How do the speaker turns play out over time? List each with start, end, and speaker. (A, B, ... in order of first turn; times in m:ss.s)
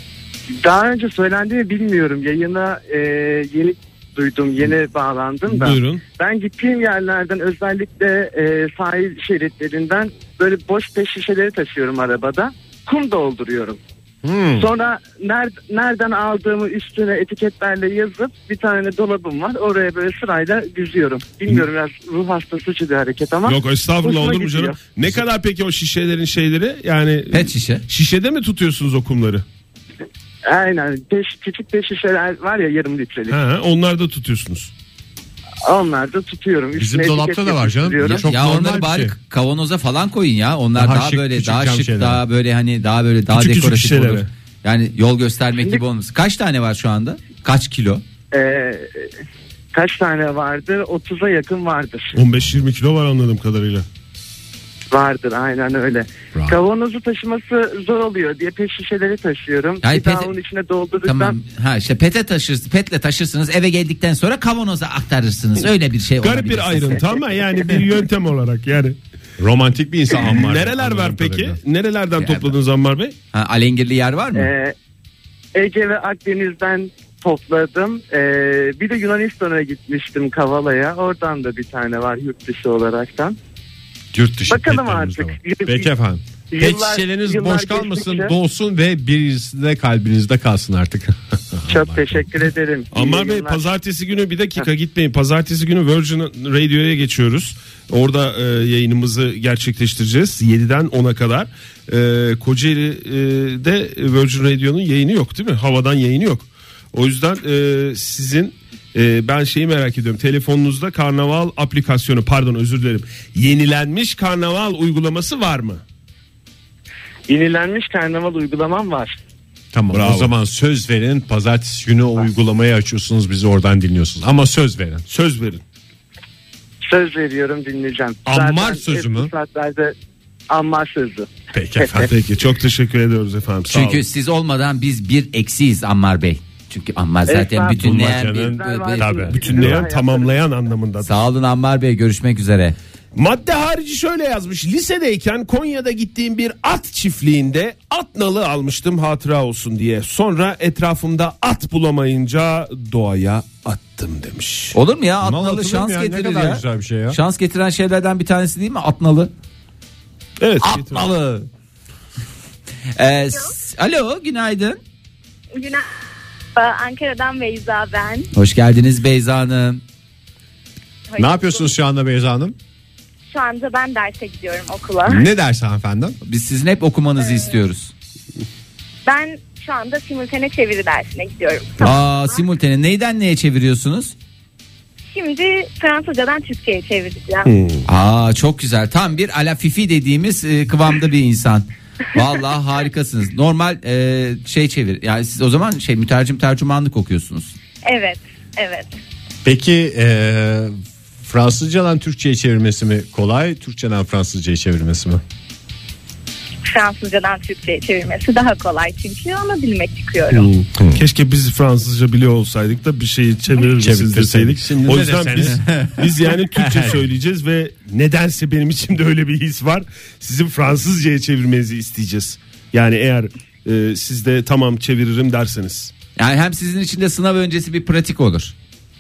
0:00.5-0:13.8 A
0:05.5-0:06.0 B
0:14.2-0:14.7 C
0:14.6-0:24.8 A
0:23.4-0:29.4 B
0:27.3-0:27.8 D
0:30.5-0:33.4 A
0:33.3-0:34.7 B
0:35.6-0:38.2 A
0:36.8-0:39.2 C
0:38.1-0:48.0 D
0:40.8-0:42.2 C
0:43.3-0:44.3 B
0:48.3-0:49.1 A
0:49.7-0:52.2 A
0:52.2-0:53.9 B
0:54.9-1:01.4 A
0:59.8-1:00.3 D
1:01.0-1:07.1 D
1:06.2-1:09.0 B
1:09.4-1:11.6 C
1:10.2-1:13.2 B
1:12.2-1:12.5 D
1:13.3-1:14.5 D
1:14.4-1:14.8 A
1:15.5-1:23.4 A
1:24.1-1:32.2 C
1:24.5-1:25.9 A
1:26.5-1:28.3 A
1:31.7-1:33.6 A
1:32.9-1:55.8 B
1:57.3-1:59.2 A
1:59.7-2:05.0 C
1:59.9-2:00.3 B
2:05.1-2:05.6 B
2:06.8-2:10.0 A
2:08.3-2:09.3 C
2:10.5-2:11.3 A
2:11.5-2:12.1 C
2:12.1-2:14.0 B
2:13.7-2:19.4 D
2:17.3-2:20.4 A
2:17.8-2:19.8 C
2:19.4-2:21.1 B
2:21.0-2:22.8 D
2:23.2-2:34.8 B
2:34.7-2:39.3 D
2:35.2-2:37.2 C
2:40.4-2:41.1 B
2:40.6-2:41.5 D
2:43.0-2:44.8 D
2:45.6-2:45.9 E
2:46.6-2:48.3 E
2:48.3-2:49.8 D
2:51.1-2:51.7 E
2:51.2-2:52.6 C
2:53.3-2:55.3 E
2:55.1-2:56.2 C
2:56.2-2:57.9 D
2:57.2-2:57.5 E
2:59.0-3:02.4 E
3:01.8-3:04.1 D
3:05.1-3:07.5 E
3:07.4-3:07.8 B
3:07.9-3:17.5 D
3:17.8-3:18.9 E
3:19.4-3:25.2 C
3:26.6-3:30.5 E
3:30.3-3:45.9 B
3:30.8-3:31.0 C
3:33.6-3:35.6 C
3:35.6-3:36.0 D
3:36.5-3:37.0 C
3:46.2-3:48.5 D